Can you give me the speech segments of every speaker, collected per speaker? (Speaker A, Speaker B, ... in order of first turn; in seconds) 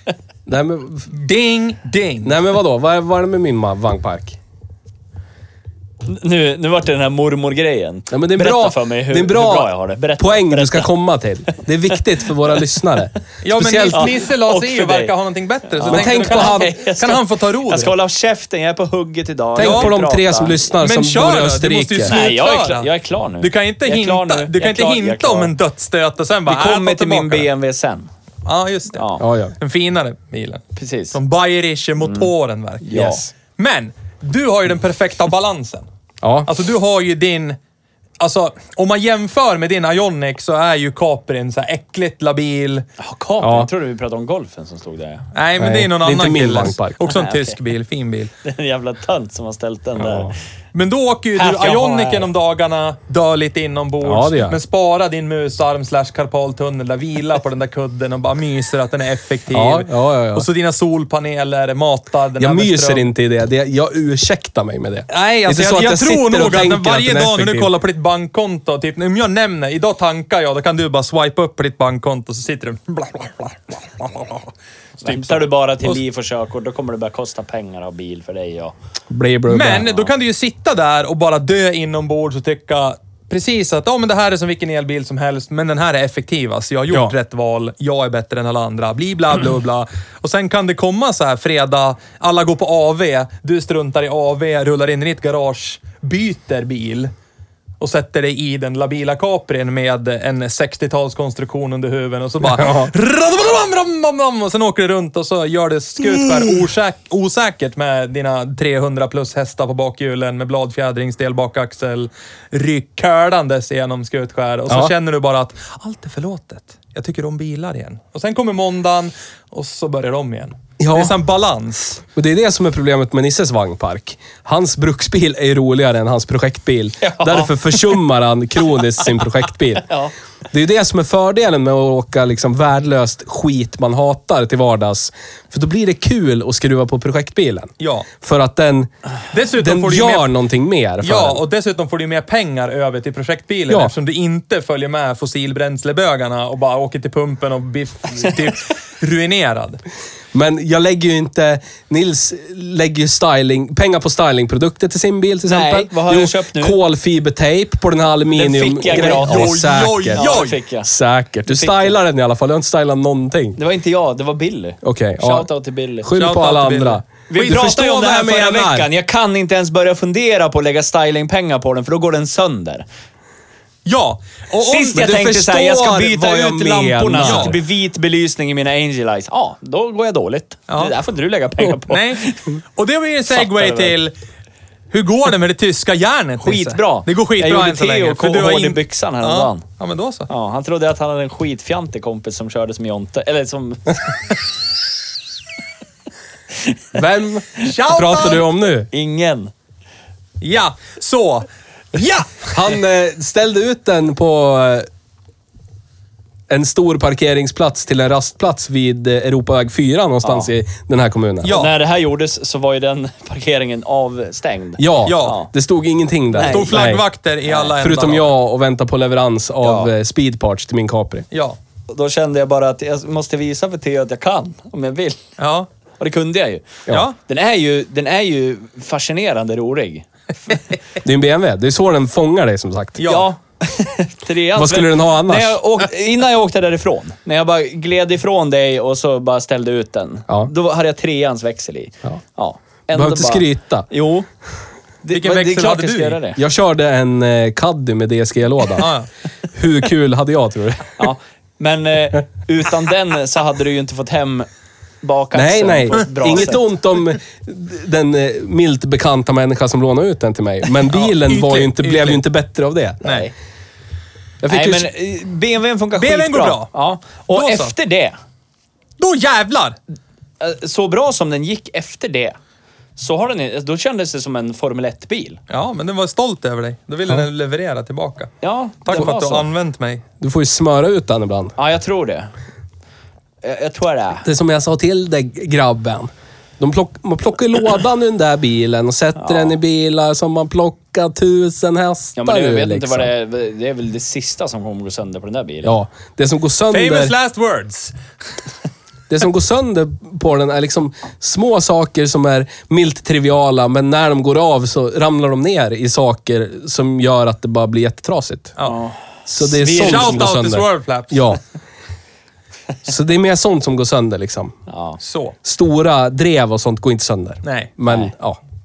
Speaker A: 0.5-1.1, 2.2-4.4, 8.1-14.1, 15.8-16.7, 19.6-22.2, 29.2-29.5, 36.2-36.5, 43.4-43.7, 45.6-47.0, 50.0-50.3, 54.0-54.6, 59.5-60.5, 62.4-67.7, 79.1-80.0, 102.4-102.9, 120.8-121.2, 122.1-129.9, 130.5-138.9, 139.6-141.4, 150.3-163.6, 164.8-165.5, 166.0-168.9, 174.9-177.6, 196.9-198.9, 202.5-204.9, 206.5-211.6, 214.8-217.0, 217.8-221.2, 231.0-233.1, 234.5-235.6, 242.9-243.9, 246.3-248.9, 249.5-251.1, 255.3-263.0, 264.4-264.9, 280.2-281.5, 284.2-293.1, 295.6-297.1, 299.1-308.5, 309.3-311.4, 312.8-314.6, 315.4-318.4
Speaker B: 1.1-2.4, 13.4-17.9, 19.6-19.9, 20.8-27.5, 28.4-29.1, 29.6-35.9, 36.4-37.6, 38.2-42.9, 45.3-48.3, 50.7-63.0, 65.1-74.5, 75.0-76.0, 79.5-97.1, 97.8-122.0, 137.8-138.1, 139.3-140.3, 141.0-149.8, 158.8-160.6, 166.2-167.8, 173.8-175.7, 177.1-177.6, 180.7-180.9, 181.8-184.1, 184.9-190.3, 197.6-198.5, 200.4-202.8, 211.4-211.7, 215.0-215.4, 216.4-218.3, 221.3-221.6, 225.4-225.7, 226.9-227.2, 233.0-233.3, 245.1-246.2, 248.8-249.1, 260.9-262.2, 263.0-263.3, 265.9-266.7, 267.3-267.7, 269.0-269.8, 275.5-278.3, 278.9-280.0, 296.7-297.9, 309.4-311.3, 315.0-315.4, 317.4-317.7
Speaker C: 6.0-10.9, 13.9-15.1, 15.7-20.7, 22.1-25.5, 26.4-28.1, 28.9-29.2, 30.8-31.2, 32.0-32.3, 32.8-33.3, 43.0-45.2, 47.0-47.6, 48.4-50.3, 51.4-52.3, 75.0-78.7, 127.0-127.5, 129.9-130.1, 155.4-156.8, 158.3-160.9, 161.5-161.9, 163.6-166.1, 167.3-172.8, 174.6-182.5, 183.3-183.9, 186.4-189.6, 190.3-194.2, 198.9-199.5, 210.2-210.5, 211.5-215.5, 216.3-216.9, 217.4-217.7, 219.6-219.9, 221.9-225.2, 226.0-230.6, 233.1-244.3, 245.0-246.4, 251.0-254.5, 255.0-256.6, 263.0-263.3, 264.5-268.1, 270.4-272.4, 272.9-275.4, 278.4-279.5, 281.6-282.3, 283.4-284.2, 289.2-289.5, 292.2-295.7, 308.6-309.0, 314.7-315.0, 317.9-318.1